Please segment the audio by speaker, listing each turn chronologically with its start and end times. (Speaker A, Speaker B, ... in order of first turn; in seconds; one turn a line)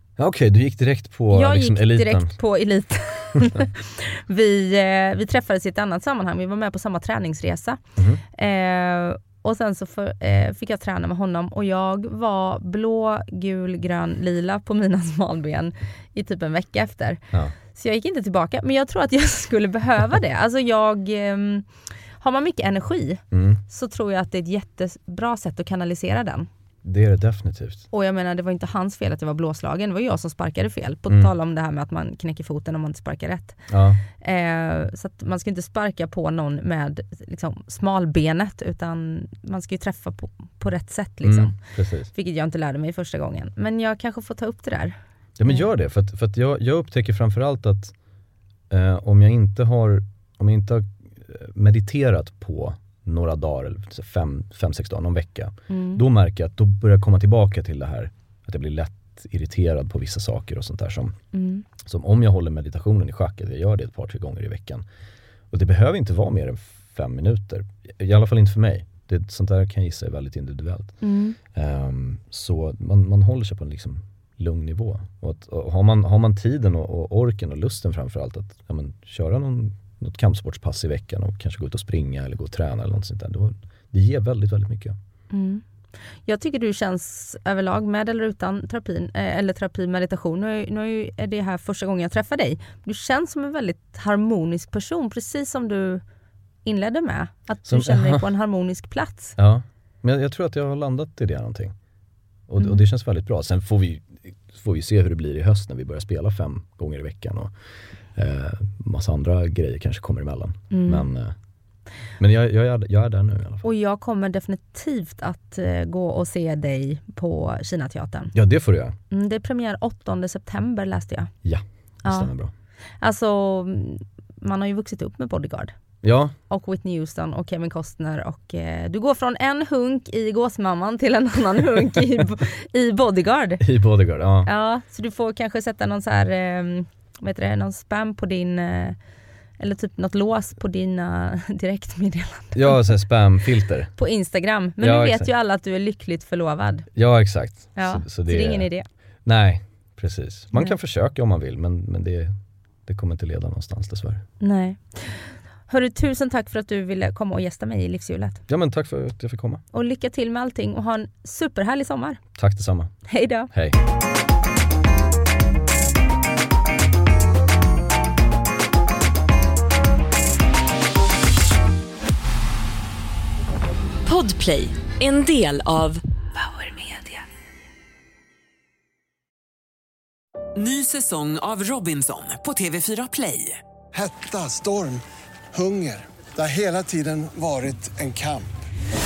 Speaker A: 0.2-2.3
Speaker B: 1.3-7.8
Speaker A: 8.0-8.2
Speaker B: 8.3-17.2
Speaker B: 17.7-21.7
Speaker B: 22.2-26.5
Speaker A: 23.3-23.6
Speaker A: 26.8-27.9
Speaker B: 27.9-33.6
Speaker A: 33.7-34.0
Speaker B: 34.2-41.5
Speaker A: 41.2-42.1
Speaker B: 42.1-45.6
Speaker A: 45.4-47.9
Speaker A: 48.7-61.2
Speaker B: 55.7-56.0
Speaker B: 61.3-61.6
Speaker A: 61.8-64.8
Speaker A: 65.5-70.9
Speaker B: 71.0-71.4
Speaker A: 71.5-85.0
Speaker B: 85.3-85.6
Speaker B: 86.2-96.0
Speaker B: 96.6-99.3
Speaker A: 97.7-98.2
Speaker A: 99.4-101.7
Speaker A: 102.5-107.5
Speaker A: 108.1-111.3
Speaker B: 110.7-111.1
Speaker A: 112.2-113.6
Speaker B: 113.6-118.3
Speaker A: 118.3-119.0
Speaker B: 119.1-121.3
Speaker A: 121.4-122.5
Speaker B: 122.0-122.3
Speaker B: 123.0-125.7
Speaker A: 126.0-126.3
Speaker B: 126.5-133.6
Speaker A: 133.6-134.5
Speaker B: 134.4-139.0
Speaker B: 139.6-142.9
Speaker A: 142.5-143.9
Speaker B: 144.0-146.9
Speaker A: 144.8-145.3
Speaker A: 146.9-148.7
Speaker B: 147.8-148.9
Speaker A: 149.2-152.3
Speaker A: 152.8-154.2
Speaker B: 154.4-158.4
Speaker A: 158.5-159.6
Speaker B: 159.7-162.2
Speaker A: 162.3-162.9
Speaker B: 163.1-163.5
Speaker A: 163.5-163.8
Speaker C: 174.1-176.0
Speaker C: 176.6-177.0
Speaker D: 180.5-183.6
Speaker E: 183.9-188.5